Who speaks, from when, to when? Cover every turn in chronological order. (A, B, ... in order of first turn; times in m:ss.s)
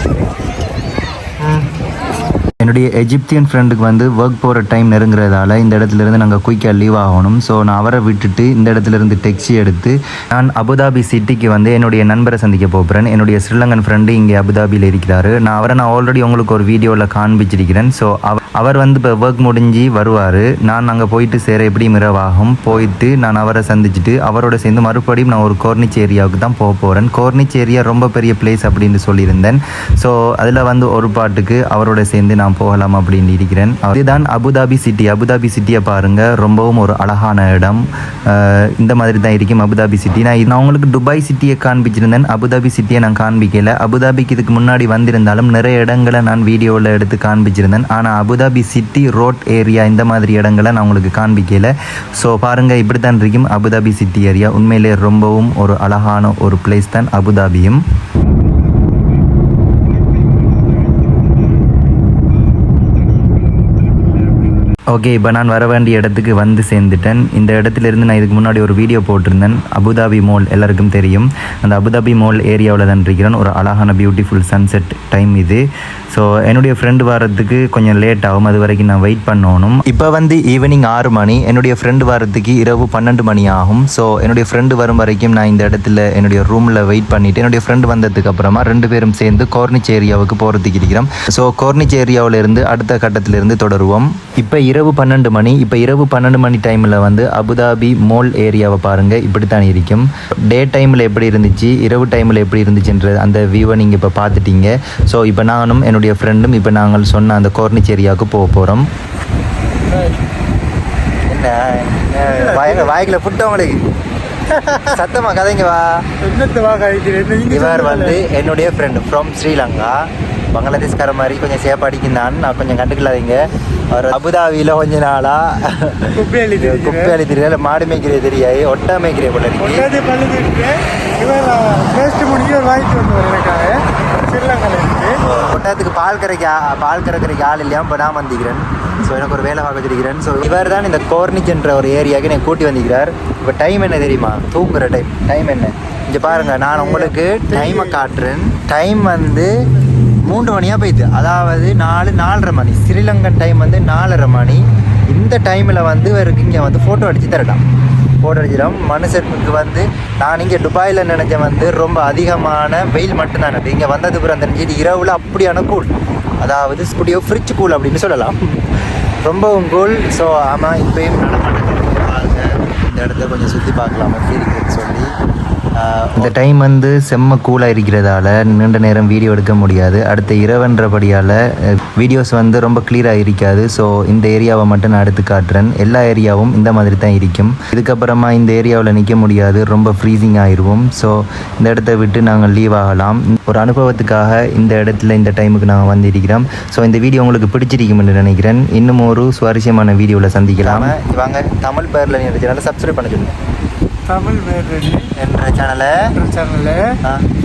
0:02.6-0:57.8 A
1:04.9-1:15.6 A
1:16.1-1:48.9 A
1:51.3-1:53.8 B
1:52.2-1:52.9 C
1:54.5-1:56.0 B
1:56.2-1:58.2 C
1:57.5-2:00.0 B
2:00.5-2:03.4 B
2:03.9-2:09.9 B
2:06.1-2:07.1 C
2:09.6-2:15.2 C
2:15.2-2:29.5 B
2:26.4-2:28.0 C
2:30.3-2:37.6 B
2:38.2-2:45.9 B
2:46.4-2:48.4 B
2:49.2-2:55.1 B
2:55.8-2:56.3 B
2:56.2-3:20.9 A
3:20.6-3:23.3 B
3:24.1-3:25.1 C
3:25.2-3:26.1 B
3:26.1-3:27.0 C